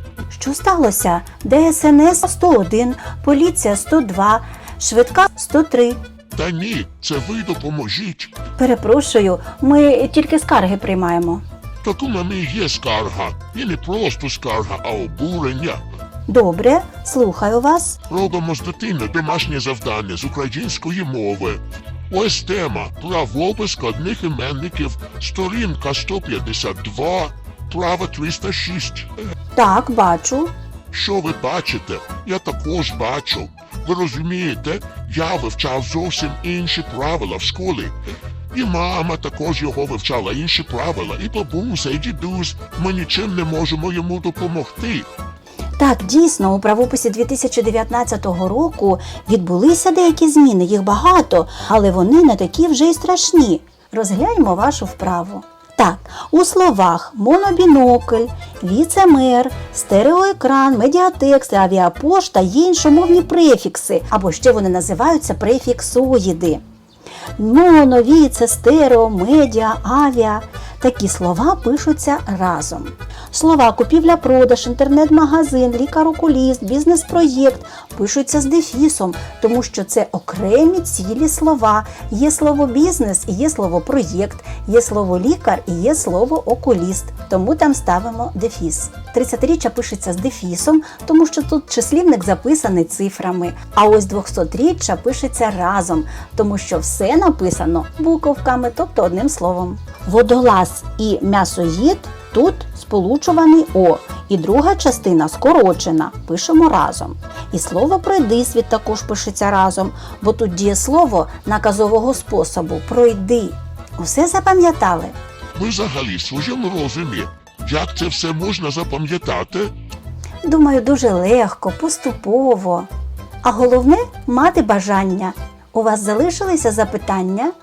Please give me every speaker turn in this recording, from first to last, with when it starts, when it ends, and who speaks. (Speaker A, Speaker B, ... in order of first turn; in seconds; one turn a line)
Speaker A: 0.3-6.0
Speaker B: 6.3-8.3
Speaker A: 8.6-11.4
Speaker B: 11.8-15.8
Speaker A: 16.3-18.0
Speaker B: 18.1-29.1
Speaker A: 29.6-30.5
Speaker B: 30.9-38.0
Speaker B: 38.5-45.1
Speaker A: 45.8-66.6
Speaker A: 67.4-115.2
Speaker B: 115.5-119.7
Speaker A: 120.5-122.9
Speaker A: 123.4-127.5